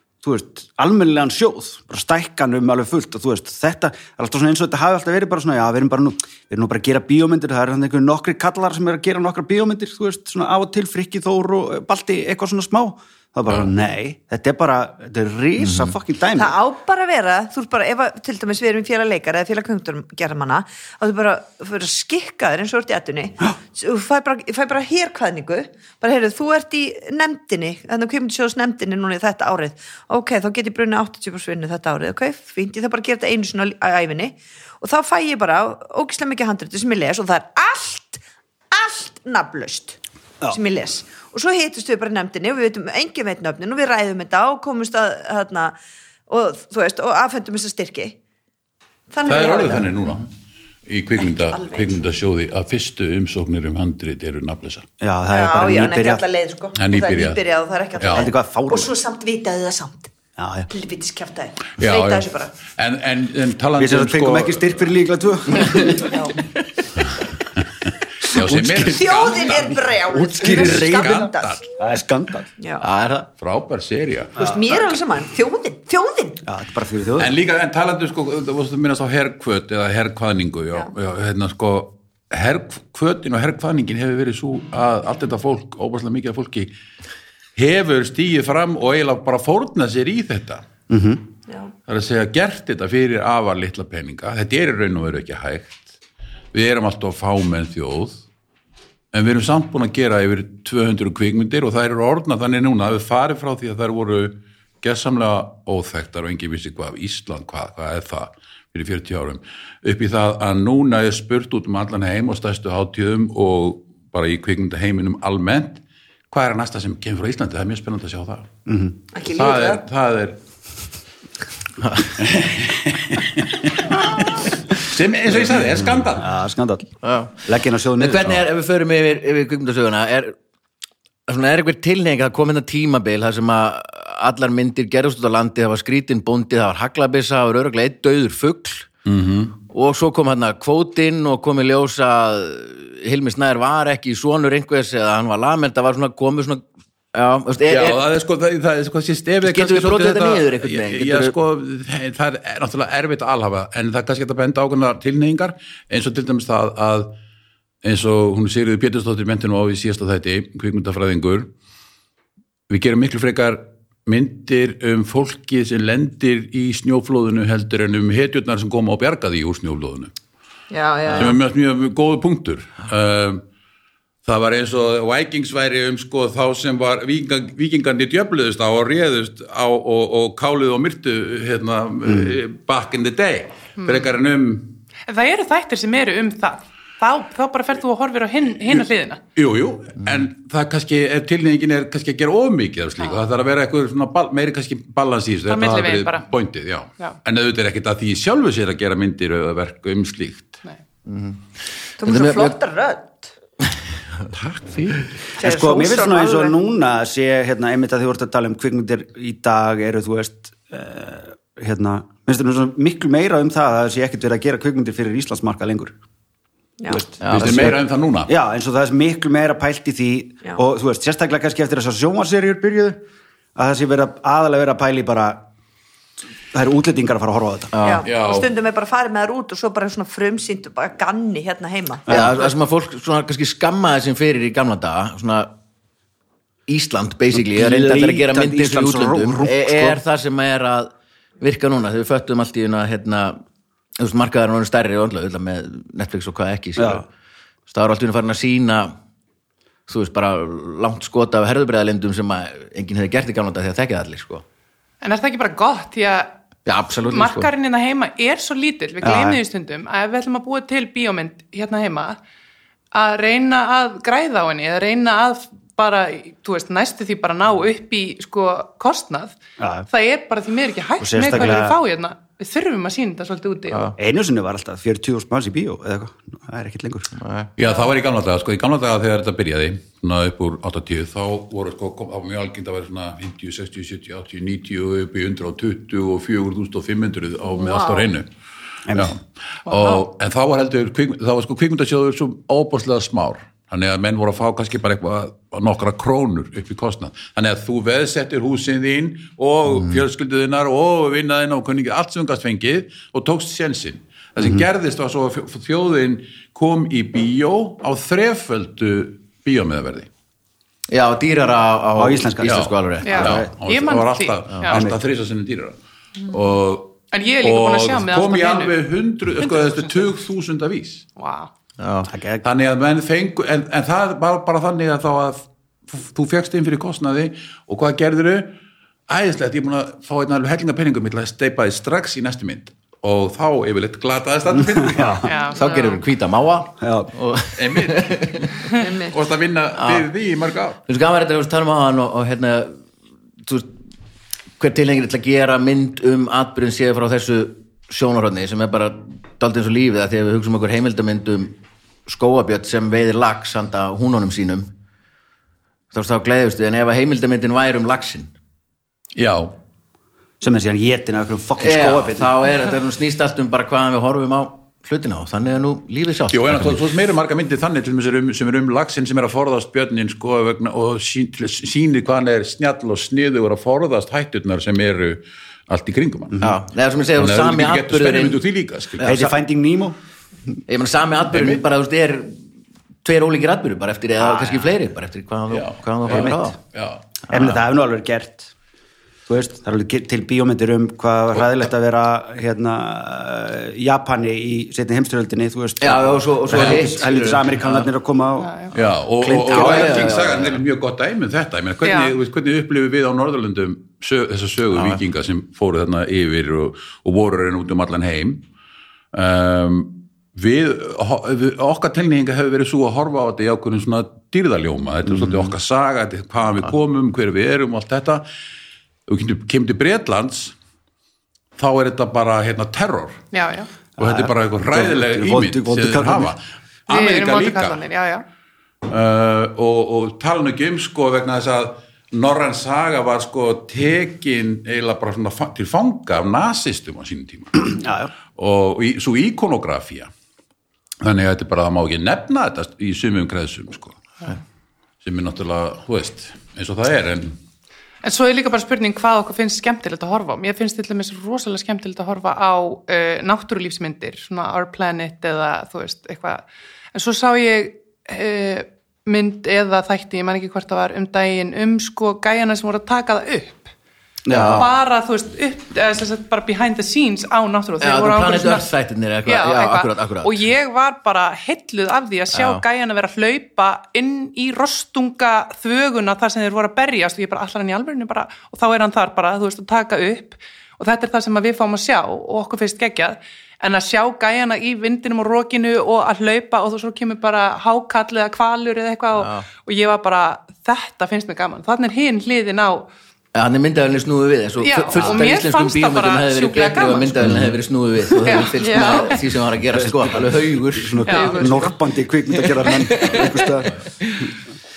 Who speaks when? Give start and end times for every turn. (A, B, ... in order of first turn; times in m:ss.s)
0:00.2-0:16.6 A
0:15.6-0:16.0 B
0:16.4-0:40.0 C
0:40.5-0:45.8 C
0:46.3-0:48.2 C
0:49.1-0:49.9 C
0:49.2-0:50.3 D
0:50.9-0:54.9 D
0:51.3-0:52.0 C
0:55.0-0:56.2 A
0:55.3-1:00.1 C
0:56.8-0:57.4 D
0:58.0-0:58.3 D
0:58.1-0:58.9 A
1:00.4-1:00.7 A
1:00.7-1:02.5 C
1:01.8-1:04.9 D
1:03.8-1:06.3 A
1:06.0-1:06.4 C
1:08.2-1:09.8 D
1:08.5-1:08.9 A
1:08.8-1:11.6 C
1:10.1-1:11.3 A
1:10.4-1:11.7 D
1:11.8-1:12.5 A
1:12.6-1:12.8 C
1:12.8-1:13.3 B
1:13.4-1:14.4 D
1:14.4-1:14.9 A
1:14.4-1:16.4 C
1:16.4-1:17.3 A
1:17.2-1:26.7 D
1:27.6-1:30.6 D
1:30.9-1:31.2 A
1:31.9-1:35.9 D
1:36.5-1:38.2 D
1:39.1-1:58.5 D
1:58.7-1:59.0 A
1:59.1-1:59.8 C
1:59.3-2:00.4 D
2:01.8-2:02.2 B
2:02.2-2:06.3 D
2:05.6-2:06.9 A
2:07.0-2:07.4 B
2:07.4-2:08.4 A
2:08.0-2:10.4 B
2:11.3-2:18.9 B
2:19.1-2:19.6 D
2:19.6-2:28.0 B
2:27.7-2:37.2 D
2:29.4-2:31.4 B
2:37.8-2:41.5 D
2:42.7-2:50.1 D
2:50.7-2:51.4 C
2:51.1-2:53.4 D
2:54.2-3:04.8 D
3:03.8-3:04.1 E
3:05.1-3:09.2 E
3:09.4-3:20.6 D
3:15.5-3:16.3 E
3:21.1-3:21.4 B
3:22.0-3:23.3 C
3:22.0-3:22.6 B
3:24.3-3:25.1 D
3:25.4-3:26.6 C
3:25.4-3:36.0 A
3:36.8-3:37.0 C
3:36.9-3:43.0 A
3:37.2-3:37.7 B
3:37.3-3:38.3 D
3:43.6-3:45.4 A
3:46.5-3:47.7 A
3:47.7-3:48.1 B
3:47.8-3:52.5 C
3:48.0-3:48.5 D
3:52.1-3:52.4 A
3:52.1-3:55.5 B
3:56.7-4:03.4 B
3:57.3-4:00.0 A
4:04.0-4:07.1 B
4:06.8-4:07.0 A
4:07.7-4:09.0 B
4:09.9-4:14.4 B
4:15.0-4:16.3 E
4:16.7-4:17.5 B
4:17.1-4:22.2 E
4:19.0-4:19.4 A
4:22.9-4:29.4 E
4:29.6-4:29.9 A
4:29.9-4:33.9 E
4:31.0-4:31.8 A
4:34.0-4:37.1 A
4:37.2-4:37.5 B
4:37.6-4:48.3 D
4:47.6-4:48.1 C
4:48.9-4:49.1 A
4:48.9-5:10.1 D
4:49.7-4:50.0 E
5:04.4-5:04.6 A
5:10.9-5:13.4 B
5:12.0-5:13.5 A
5:12.4-5:21.1 D
5:13.0-5:14.8 E
5:14.7-5:15.0 A
5:17.1-5:18.8 E
5:21.2-5:21.5 E
5:21.8-5:22.1 B
5:22.1-5:22.4 A
5:22.4-5:28.6 D
5:29.1-5:35.4 D
5:34.6-5:35.3 A
5:35.2-5:35.6 E
5:35.5-5:38.5 B
5:35.6-5:36.0 C
5:36.8-5:37.1 A
5:37.6-5:40.8 D
5:38.7-5:39.2 C
5:39.8-5:40.1 B
5:40.9-5:42.8 B
5:43.4-5:43.8 B
5:44.6-5:54.7 B
5:55.9-5:58.3 B
5:59.2-5:59.6 D
6:00.4-6:02.3 A
6:01.6-6:06.8 B
6:06.3-6:16.5 D
6:16.4-6:18.4 B
6:17.2-6:19.2 D
6:19.0-6:19.3 B
6:19.0-6:20.0 A
6:20.7-6:22.4 B
6:21.3-6:21.6 D
6:23.0-6:26.6 B
6:25.5-6:27.0 D
6:26.1-6:26.4 A
6:27.3-6:28.5 A
6:29.3-6:40.3 A
6:35.8-6:37.9 B
6:38.4-6:38.7 E
6:38.7-6:48.4 D
6:39.4-6:40.6 B
6:41.8-6:42.1 E
6:44.7-6:45.0 B
6:49.1-6:58.2 D
6:59.1-7:00.6 D
7:01.6-7:03.2 D
7:03.3-7:03.7 E
7:04.0-7:07.8 D
7:04.0-7:06.3 A
7:06.9-7:08.2 E
7:08.9-7:17.8 D
7:17.7-7:18.1 A
7:18.4-7:20.1 D
7:21.0-7:24.3 D
7:25.0-7:27.4 D
7:28.0-7:43.7 E
7:44.3-7:44.7 A
7:44.3-7:44.7 B
7:44.6-7:48.7 E
7:47.8-7:50.4 B
7:49.2-8:12.9 E
7:52.3-7:52.6 B
8:09.1-8:09.5 B
8:13.3-8:21.1 B
8:14.6-8:17.3 E
8:18.2-8:19.1 E
8:18.5-8:19.2 C
8:19.7-8:23.8 A
8:21.1-8:21.7 E
8:21.1-8:21.8 C
8:22.4-8:24.4 B